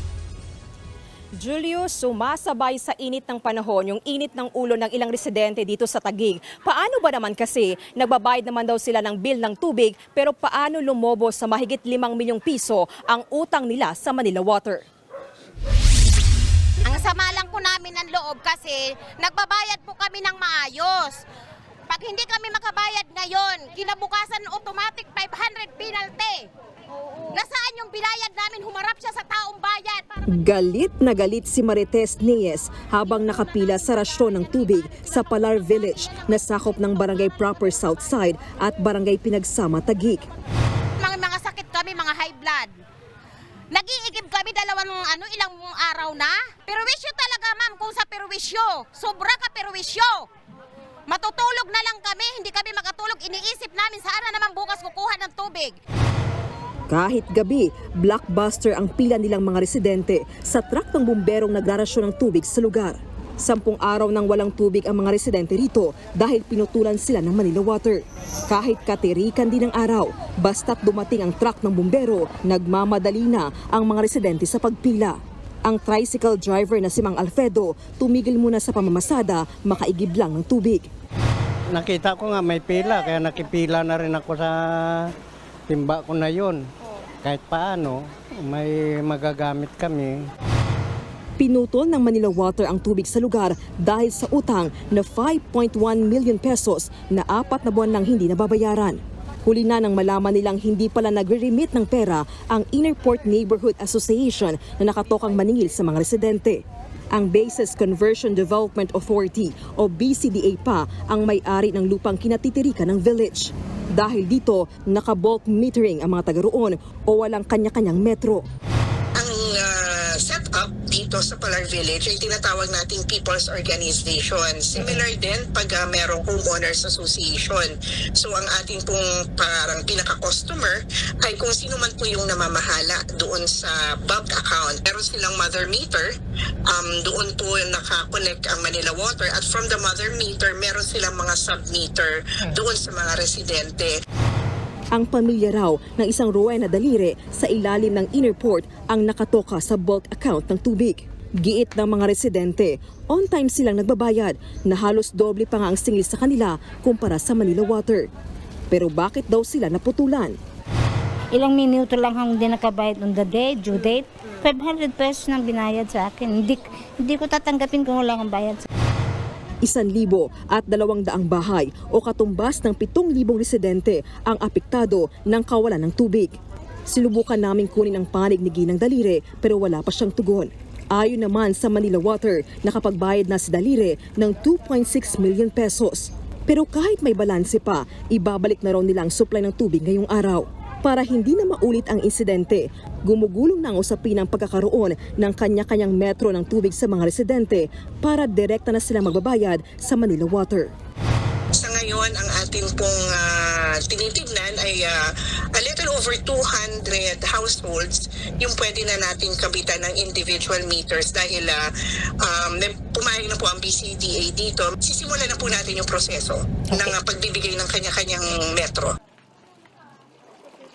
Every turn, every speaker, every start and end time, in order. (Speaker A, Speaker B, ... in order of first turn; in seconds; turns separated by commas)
Speaker A: 1.4-14.8, Speaker B: 16.8-21.2, Speaker B: 21.9-26.5, Speaker B: 27.3-30.1, Speaker A: 30.4-40.3, Speaker B: 41.0-42.7, Speaker B: 43.7-50.3, Speaker B: 51.1-55.8, Speaker A: 56.9-80.9, Speaker C: 81.7-85.1, Speaker C: 85.7-86.7, Speaker C: 87.2-90.3, Speaker A: 91.4-118.5, Speaker D: 119.2-136.1, Speaker D: 136.7-143.9, Speaker A: 144.9-158.1, Speaker A: 158.7-160.4, Speaker E: 161.3-168.7, Speaker A: 169.6-176.4, Speaker A: 176.9-200.7, Speaker D: 201.5-211.6, Speaker D: 212.2-218.9